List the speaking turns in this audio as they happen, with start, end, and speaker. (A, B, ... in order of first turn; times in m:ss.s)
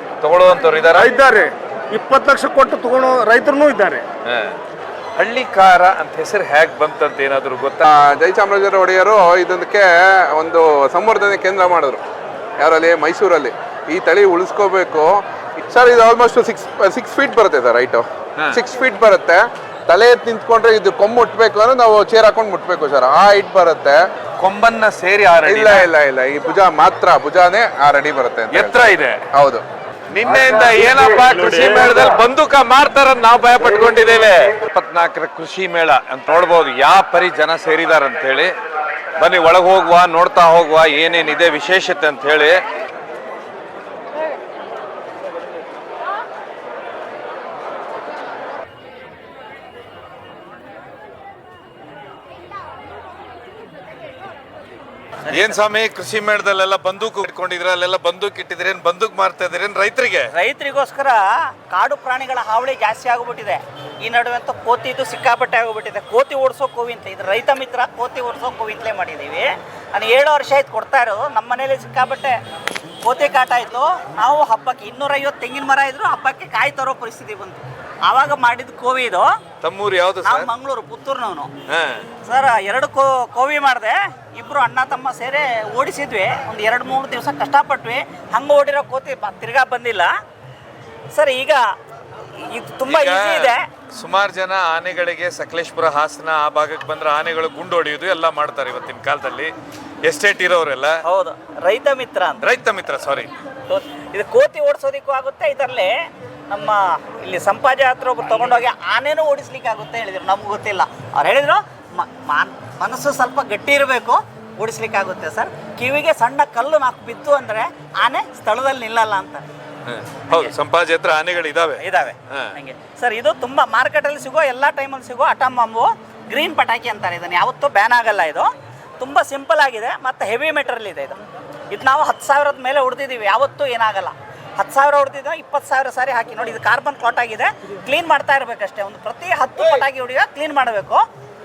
0:00.2-0:01.1 A
0:00.9-0:04.0 B
0:04.2-0:04.6 A
0:05.2-0:07.8 A
0:07.8-0:12.0 C
0:12.6-0:24.0 C
0:24.4-0:25.9 A
0:25.5-0:29.6 C
0:28.5-0:29.2 A
0:30.1-0:38.5 A
0:39.2-0:42.6 A
0:55.3-0:55.6 D
0:55.3-1:00.3 A
1:00.3-1:12.4 D
1:13.0-1:19.3 D
1:19.6-1:20.5 A
1:20.2-1:21.5 D
1:21.7-1:22.1 A
1:22.2-1:30.1 D
1:31.1-1:31.6 D
1:32.4-1:33.6 D
1:32.9-1:39.5 A
1:40.0-1:41.0 A
1:41.0-1:42.4 D
1:42.4-1:43.3 A
1:43.7-1:46.0 D
1:46.5-1:59.5 D
1:59.9-2:02.5 A
2:01.8-2:11.2 D
2:11.7-2:21.0 D